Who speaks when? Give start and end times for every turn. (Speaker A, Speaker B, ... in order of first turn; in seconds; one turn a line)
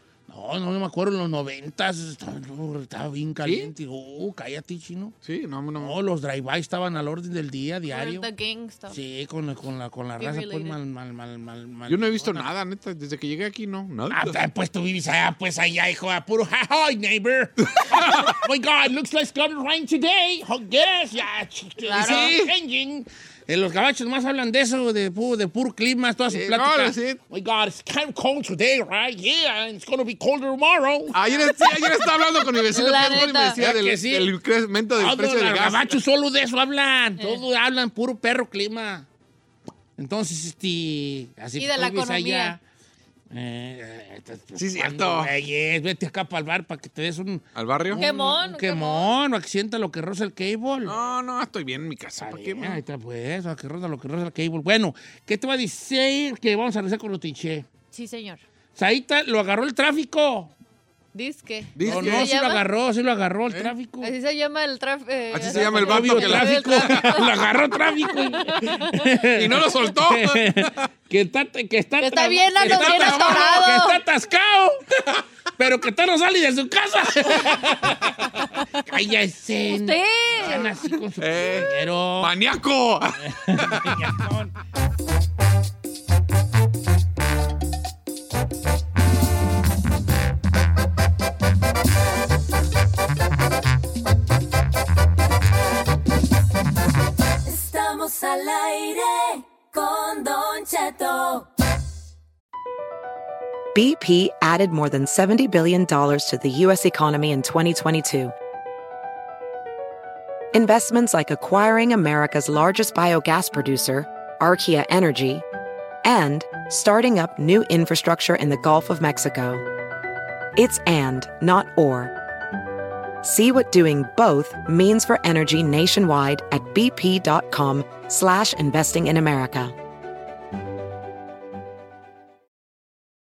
Speaker A: 0.3-5.2
Speaker B: 3.4-3.7
Speaker B: 5.2-6.0
Speaker A: 5.8-8.3
Speaker C: 7.9-9.0
Speaker A: 8.9-12.5
Speaker C: 10.2-10.8
Speaker B: 11.9-14.4
Speaker A: 14.1-31.7
Speaker B: 17.8-18.4
Speaker C: 21.9-22.3
Speaker B: 22.0-22.5
Speaker B: 26.3-27.2
Speaker B: 31.1-36.0
Speaker C: 32.7-33.6
Speaker A: 33.6-34.3
Speaker A: 35.0-39.1
Speaker A: 40.0-42.6
Speaker C: 41.6-42.6
Speaker A: 43.3-51.0
Speaker B: 44.6-45.3
Speaker B: 47.5-48.0
Speaker C: 48.0-49.1
Speaker B: 50.9-52.8
Speaker A: 52.2-57.7
Speaker C: 57.9-58.4
Speaker A: 58.8-60.5
Speaker C: 61.1-62.6
Speaker B: 61.8-62.3
Speaker A: 61.8-64.1
Speaker C: 64.0-67.4
Speaker B: 65.3-67.3
Speaker A: 65.5-74.8
Speaker C: 68.0-69.0
Speaker B: 69.3-70.9
Speaker C: 72.0-74.0
Speaker B: 72.7-73.6
Speaker A: 75.6-82.3
Speaker C: 79.7-80.7
Speaker B: 81.2-84.0
Speaker A: 83.2-84.5
Speaker D: 97.5-101.5
Speaker E: 103.7-108.3
Speaker E: 110.5-115.4
Speaker E: 116.0-119.6
Speaker E: 120.6-122.1
Speaker E: 123.2-129.8